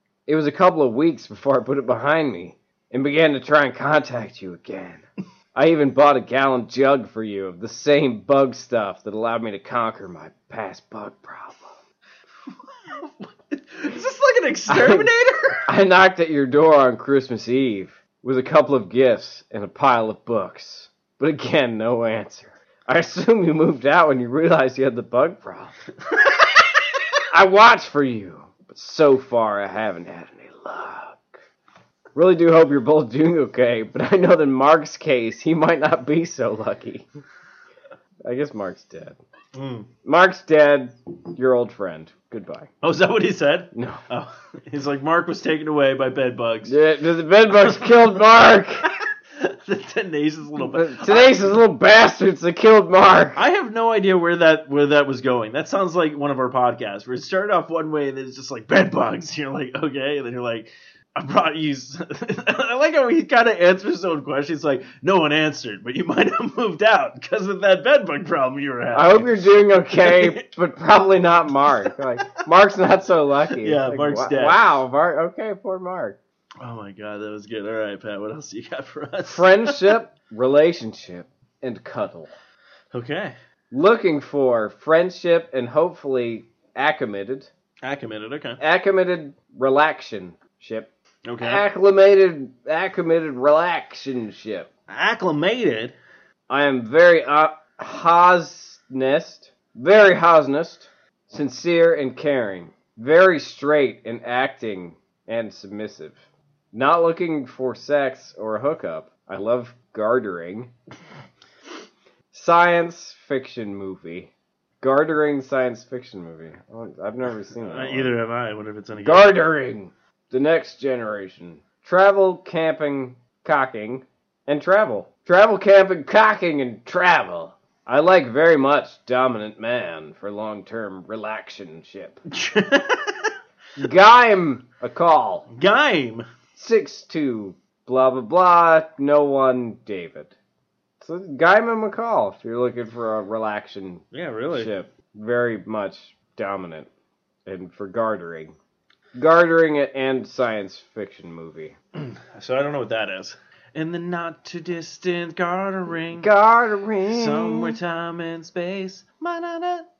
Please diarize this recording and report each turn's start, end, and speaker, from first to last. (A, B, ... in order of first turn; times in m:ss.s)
0:00.3-0:11.8 A
0:12.5-0:15.7 B
0:14.7-0:15.1 A
0:15.6-0:25.7 A
0:27.3-0:31.4 A
0:32.1-0:37.1 A
0:38.2-0:39.2 A
0:39.5-0:39.9 B
0:40.0-0:42.7 A
0:42.8-0:46.8 B
0:43.7-0:44.0 A
0:46.6-0:48.9 A
0:48.8-0:51.5 B
0:50.6-0:53.4 A
0:53.3-1:10.5 B
1:08.9-1:16.2 A
1:13.6-1:14.8 B
1:16.6-1:20.0 B
1:19.3-1:22.3 A
1:22.9-1:23.3 B
1:23.7-1:27.5 A
1:27.8-1:28.6 B
1:28.6-1:34.7 A
1:31.2-1:31.6 B
1:34.9-1:36.0 B
1:36.5-1:46.2 A
1:46.7-1:50.7 A
1:52.3-1:58.1 A
1:57.5-1:59.4 B
1:59.0-2:12.2 A
2:12.2-2:13.3 B
2:13.8-2:15.4 A
2:15.5-2:16.3 B
2:16.5-2:20.3 A
2:21.0-2:26.9 A
2:24.1-2:24.7 B
2:27.4-2:28.5 A
2:29.1-2:31.8 A
2:31.9-2:36.3 B
2:36.2-2:37.8 A
2:37.0-2:39.9 B